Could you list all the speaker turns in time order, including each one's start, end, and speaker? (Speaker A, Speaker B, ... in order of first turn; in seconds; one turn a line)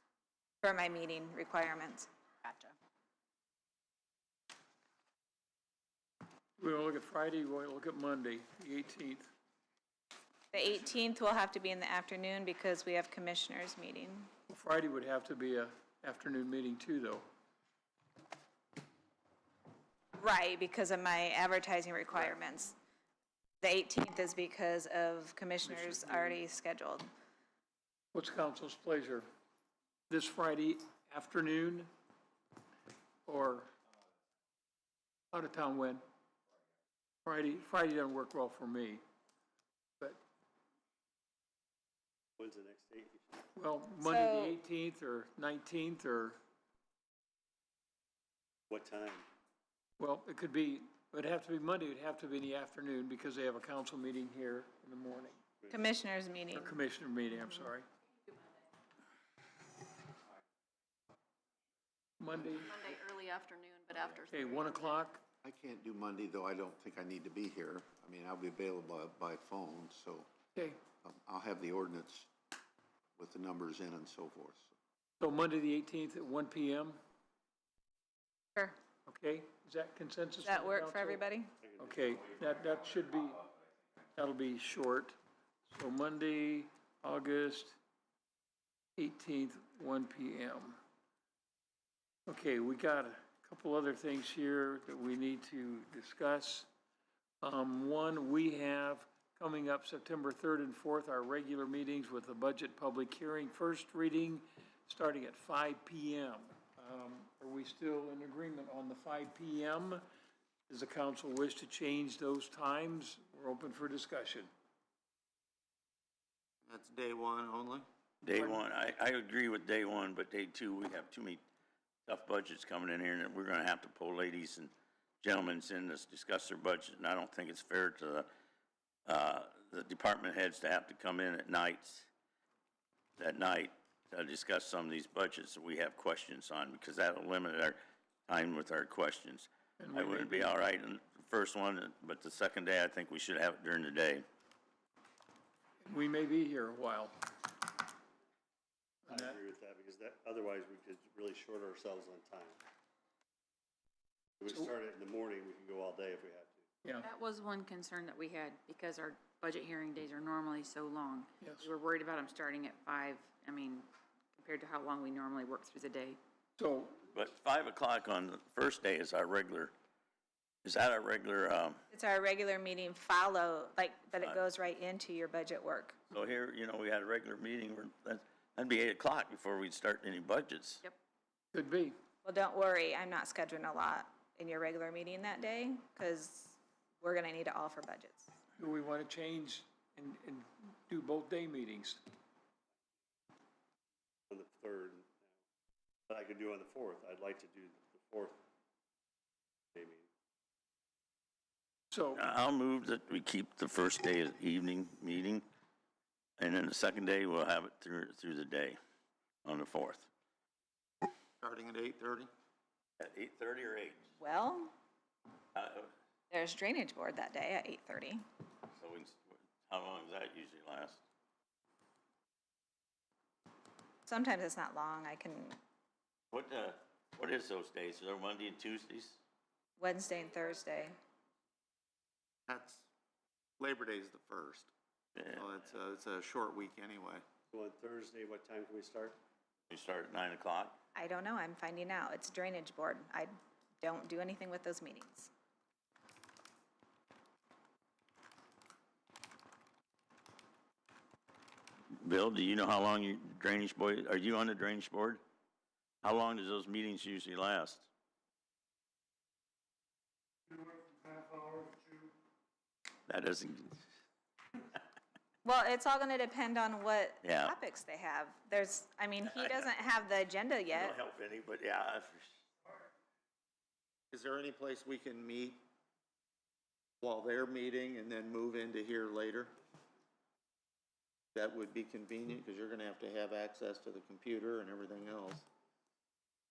Speaker A: 0.6-2.1
Speaker B: 6.6-9.3
Speaker A: 10.5-14.3
Speaker B: 14.5-17.2
Speaker A: 20.2-22.8
Speaker A: 23.6-27.1
Speaker B: 25.6-26.4
Speaker B: 28.1-29.2
Speaker B: 30.1-31.9
Speaker B: 33.2-33.7
Speaker B: 35.3-36.0
Speaker B: 37.2-39.0
Speaker C: 42.4-43.4
Speaker B: 43.5-46.4
Speaker A: 44.0-44.5
Speaker C: 48.7-49.3
Speaker B: 50.0-55.4
Speaker A: 55.7-56.7
Speaker B: 56.5-57.9
Speaker B: 62.2-62.7
Speaker D: 62.4-65.0
Speaker B: 64.3-65.2
Speaker E: 65.4-70.3
Speaker B: 70.5-70.8
Speaker E: 71.0-72.3
Speaker E: 73.2-74.7
Speaker B: 75.2-77.0
Speaker B: 79.0-83.5
Speaker A: 80.4-81.5
Speaker C: 81.6-81.9
Speaker B: 84.1-85.2
Speaker B: 85.7-87.8
Speaker B: 89.0-90.8
Speaker B: 92.3-96.7
Speaker B: 97.4-110.0
Speaker B: 110.7-114.5
Speaker F: 116.6-117.9
Speaker G: 118.2-121.4
Speaker B: 118.3-118.6
Speaker G: 122.1-128.3
Speaker G: 129.1-132.1
Speaker G: 133.2-144.2
Speaker B: 139.8-140.6
Speaker B: 145.8-147.1
Speaker B: 149.1-149.4
Speaker C: 149.1-152.6
Speaker C: 154.4-156.6
Speaker B: 154.5-154.7
Speaker H: 157.0-166.2
Speaker B: 166.6-167.0
Speaker G: 167.1-169.7
Speaker G: 170.6-171.8
Speaker A: 171.9-176.0
Speaker G: 176.1-180.8
Speaker B: 181.5-181.9
Speaker A: 182.2-188.3
Speaker B: 188.6-192.0
Speaker C: 194.3-195.2
Speaker C: 196.1-198.4
Speaker C: 199.7-200.1
Speaker B: 201.9-202.2
Speaker G: 202.1-205.4
Speaker G: 206.4-208.8
Speaker G: 209.4-210.1
Speaker F: 211.4-212.3
Speaker G: 213.0-214.1
Speaker A: 214.2-214.7
Speaker G: 215.5-215.9
Speaker A: 216.3-218.2
Speaker G: 218.8-221.0
Speaker A: 224.1-225.6
Speaker G: 226.3-229.2
Speaker A: 229.8-230.9
Speaker F: 232.5-232.9
Speaker F: 233.6-234.7
Speaker F: 235.3-237.2
Speaker C: 237.5-239.2
Speaker G: 239.7-240.8
Speaker A: 240.9-245.3
Speaker G: 251.9-255.2
Speaker G: 256.0-257.9
Speaker C: 261.1-261.9
Speaker G: 263.1-263.9
Speaker A: 265.4-271.0
Speaker G: 267.2-267.5
Speaker G: 269.2-269.7
Speaker G: 270.7-272.4
Speaker F: 274.1-275.6
Speaker F: 277.0-279.5
Speaker F: 281.3-285.4